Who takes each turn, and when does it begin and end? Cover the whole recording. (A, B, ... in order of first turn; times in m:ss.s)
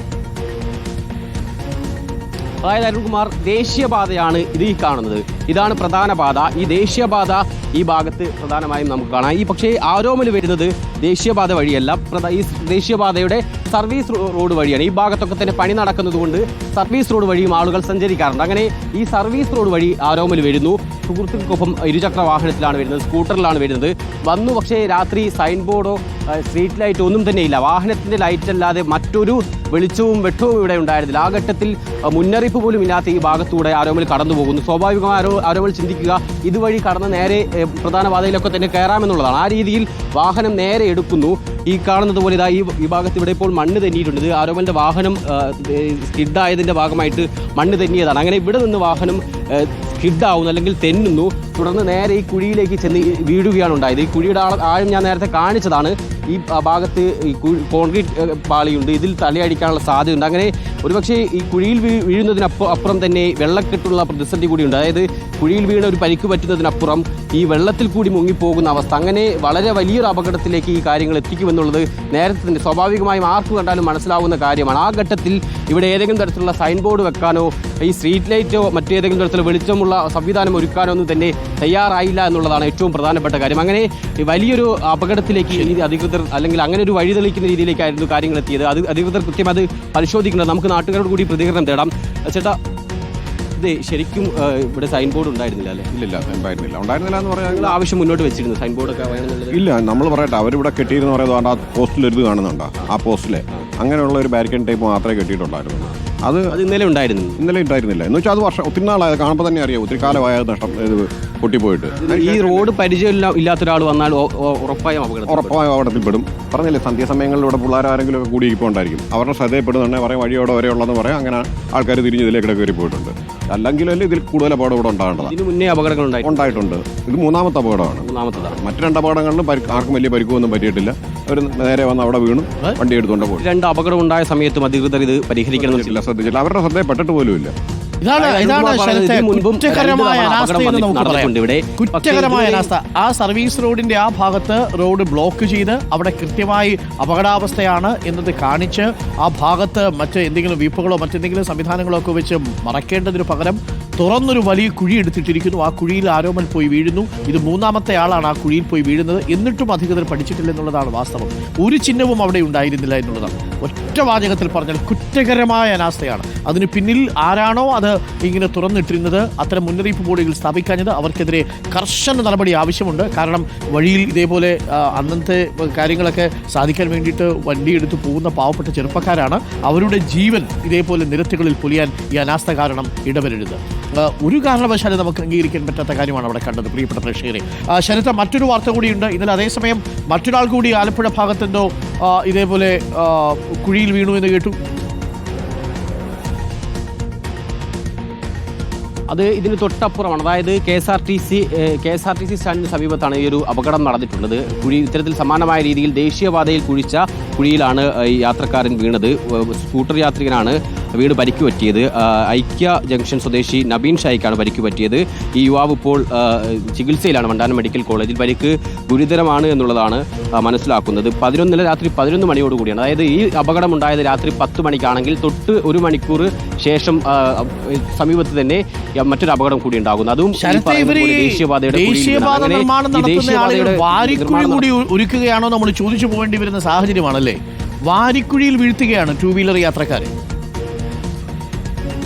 0:02.6-1:32.6 A
1:25.5-1:25.8 B
1:33.6-1:35.9 A
1:35.9-1:37.8 C
1:37.4-1:39.6 A
1:39.5-1:46.6 C
1:46.5-1:47.4 A
1:47.4-1:52.7 C
1:52.0-1:55.5 A
1:55.3-2:05.3 C
2:05.2-2:06.6 A
2:06.2-2:13.4 C
2:08.0-2:08.6 A
2:13.2-2:16.0 A
2:15.5-2:17.5 C
2:18.0-3:14.6 B
2:18.2-2:22.7 A
3:19.1-3:54.7 A
3:50.4-4:00.1 B